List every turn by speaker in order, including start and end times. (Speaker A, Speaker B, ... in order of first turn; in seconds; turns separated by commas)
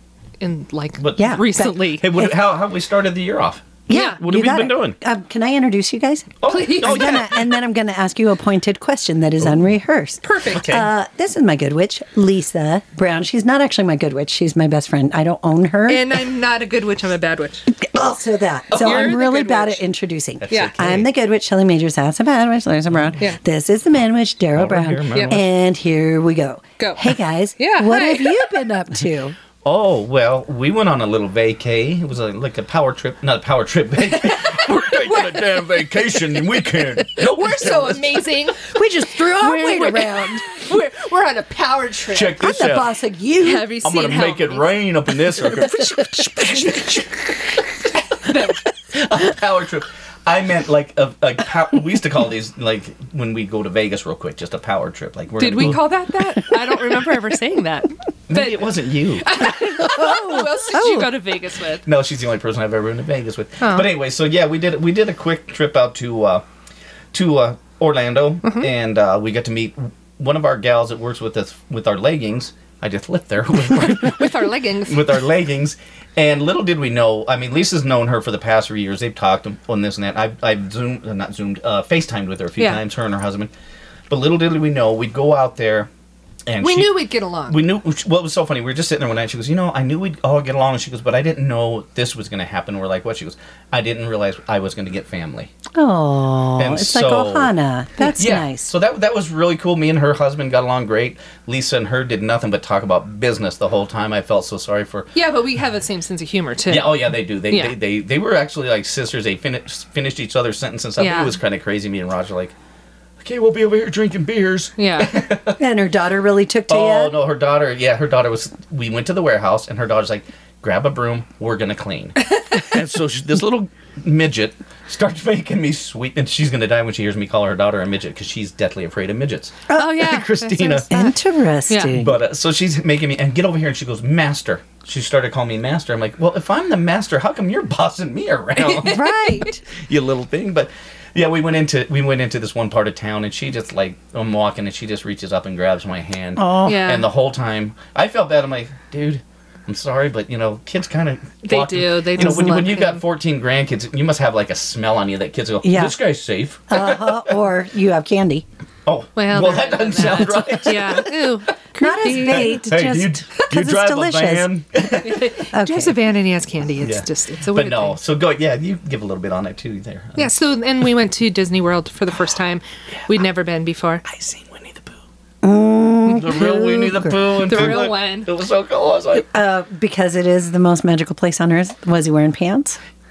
Speaker A: 0.4-2.1, Speaker B: 1.0-1.5, Speaker C: 1.2-2.4, Speaker B: 2.0-5.0, Speaker C: 3.9-16.1, Speaker A: 3.9-4.2, Speaker B: 6.4-7.5, Speaker A: 6.5-7.1, Speaker A: 10.2-10.7, Speaker B: 10.6-10.9, Speaker A: 15.9-17.7, Speaker C: 17.8-29.4, Speaker B: 18.7-19.2, Speaker A: 18.8-19.8, Speaker B: 20.4-21.1, Speaker B: 22.9-23.2, Speaker B: 24.6-25.4, Speaker A: 26.8-28.4, Speaker B: 29.6-38.2, Speaker A: 34.1-35.8, Speaker A: 37.0-38.6, Speaker C: 38.7-40.5, Speaker A: 39.4-42.4, Speaker B: 42.1-42.9, Speaker C: 42.4-43.7, Speaker A: 43.4-44.7, Speaker B: 43.8-47.4, Speaker C: 45.7-46.6, Speaker A: 48.2-48.6, Speaker B: 48.9-55.8, Speaker A: 55.4-61.9, Speaker B: 58.3-59.4, Speaker C: 59.8-61.1, Speaker B: 61.9-66.4, Speaker A: 63.6-63.9, Speaker B: 67.1-83.5, Speaker A: 68.4-68.7, Speaker A: 74.0-75.1, Speaker B: 84.1-85.9, Speaker B: 86.5-87.0, Speaker A: 86.6-87.6, Speaker B: 87.5-95.5, Speaker C: 95.8-98.7, Speaker B: 96.6-97.5, Speaker B: 98.2-105.1, Speaker A: 105.1-107.8, Speaker B: 106.7-112.5, Speaker A: 111.0-111.3, Speaker B: 113.2-115.6, Speaker A: 114.8-115.2, Speaker C: 115.6-117.2, Speaker B: 116.7-130.9, Speaker C: 129.7-130.0, Speaker A: 129.8-131.1, Speaker C: 130.9-132.2, Speaker A: 131.7-131.9, Speaker B: 131.9-139.0, Speaker A: 138.6-139.6, Speaker C: 138.8-139.6, Speaker B: 139.7-157.3, Speaker C: 146.4-146.8, Speaker A: 146.7-147.1, Speaker A: 151.4-153.0, Speaker C: 152.2-152.6, Speaker C: 155.6-156.0, Speaker C: 156.7-158.4, Speaker B: 158.9-161.1, Speaker A: 159.2-162.6, Speaker C: 161.8-165.0, Speaker B: 162.1-165.2, Speaker A: 165.0-168.0, Speaker C: 165.5-165.9, Speaker B: 166.8-170.3, Speaker A: 170.2-174.0, Speaker B: 174.1-175.0, Speaker C: 175.4-177.8, Speaker B: 176.1-179.3, Speaker A: 177.5-178.3, Speaker C: 179.3-182.8